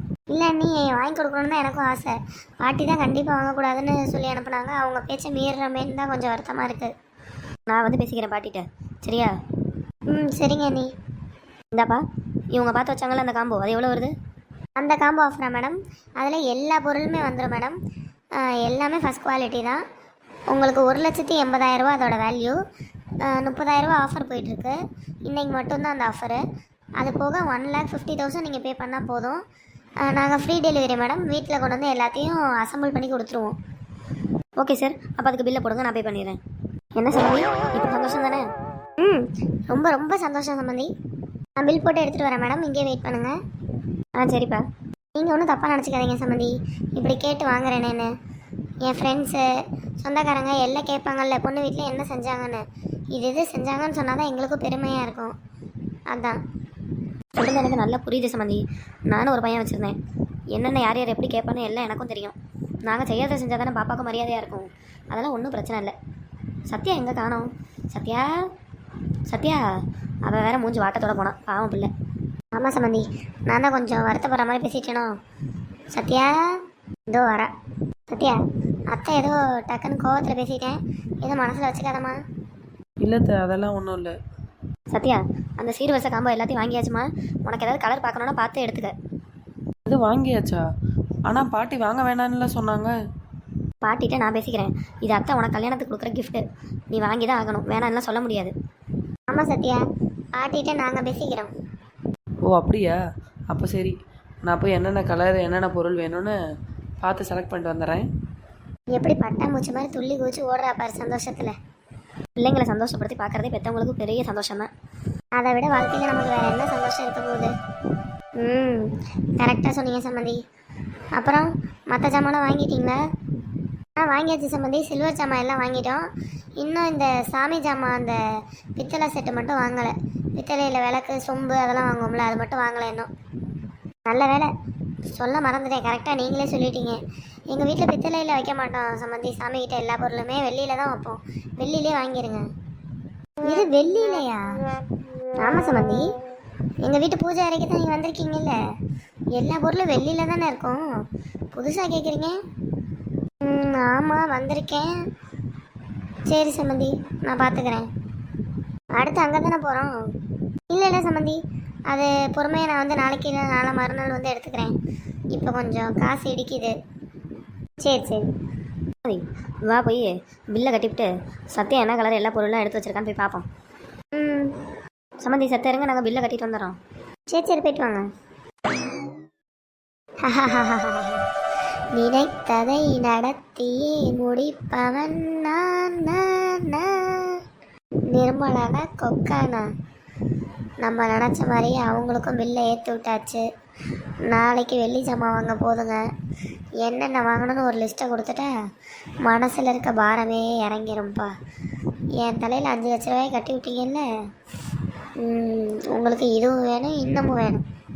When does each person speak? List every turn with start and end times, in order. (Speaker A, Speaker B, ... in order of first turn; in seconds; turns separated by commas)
Speaker A: 0.3-6.9, Speaker B: 7.7-9.3, Speaker A: 10.1-10.9, Speaker B: 11.7-14.1, Speaker A: 14.8-17.8, Speaker A: 18.4-19.8, Speaker A: 20.5-22.6, Speaker A: 23.2-26.4, Speaker A: 27.0-29.4, Speaker A: 30.0-33.6, Speaker B: 34.6-36.4, Speaker B: 37.0-38.5, Speaker A: 39.0-40.9, Speaker A: 41.6-43.3, Speaker B: 44.2-44.6, Speaker A: 45.1-48.1, Speaker A: 48.8-49.5, Speaker A: 50.0-55.4, Speaker A: 56.1-56.4, Speaker B: 57.3-60.0, Speaker B: 60.5-62.3, Speaker B: 62.9-65.9, Speaker B: 66.7-68.3, Speaker B: 69.3-69.6, Speaker B: 70.2-71.9, Speaker A: 72.5-75.1, Speaker A: 75.9-76.5, Speaker A: 77.1-77.5, Speaker A: 78.1-82.2, Speaker C: 83.0-84.2, Speaker B: 84.9-88.9, Speaker C: 89.9-90.6, Speaker C: 91.3-92.9, Speaker B: 93.8-98.5, Speaker A: 99.3-99.8, Speaker A: 100.3-101.5, Speaker C: 102.5-103.0, Speaker C: 103.5-106.4, Speaker C: 107.0-108.1, Speaker A: 108.9-111.5, Speaker B: 112.4-114.7, Speaker A: 115.4-117.5, Speaker A: 118.4-120.4, Speaker A: 121.1-123.0, Speaker A: 124.0-126.0, Speaker A: 126.6-133.1, Speaker A: 134.1-134.5, Speaker A: 135.1-142.4, Speaker A: 143.4-144.6, Speaker A: 145.3-146.2, Speaker A: 146.8-148.6, Speaker A: 149.3-150.8, Speaker A: 151.5-152.4, Speaker A: 153.4-154.9, Speaker A: 156.3-157.9, Speaker A: 158.9-159.9, Speaker A: 160.7-164.8, Speaker A: 165.3-166.8, Speaker A: 167.8-168.2, Speaker B: 169.0-173.4, Speaker A: 174.1-174.6, Speaker B: 175.2-176.8, Speaker A: 177.3-178.1, Speaker A: 180.2-181.2, Speaker A: 181.9-187.4, Speaker A: 188.1-189.7, Speaker A: 190.8-193.4, Speaker A: 194.3-196.1, Speaker A: 196.8-198.5, Speaker A: 199.2-201.3, Speaker A: 202.2-204.1, Speaker A: 205.2-207.7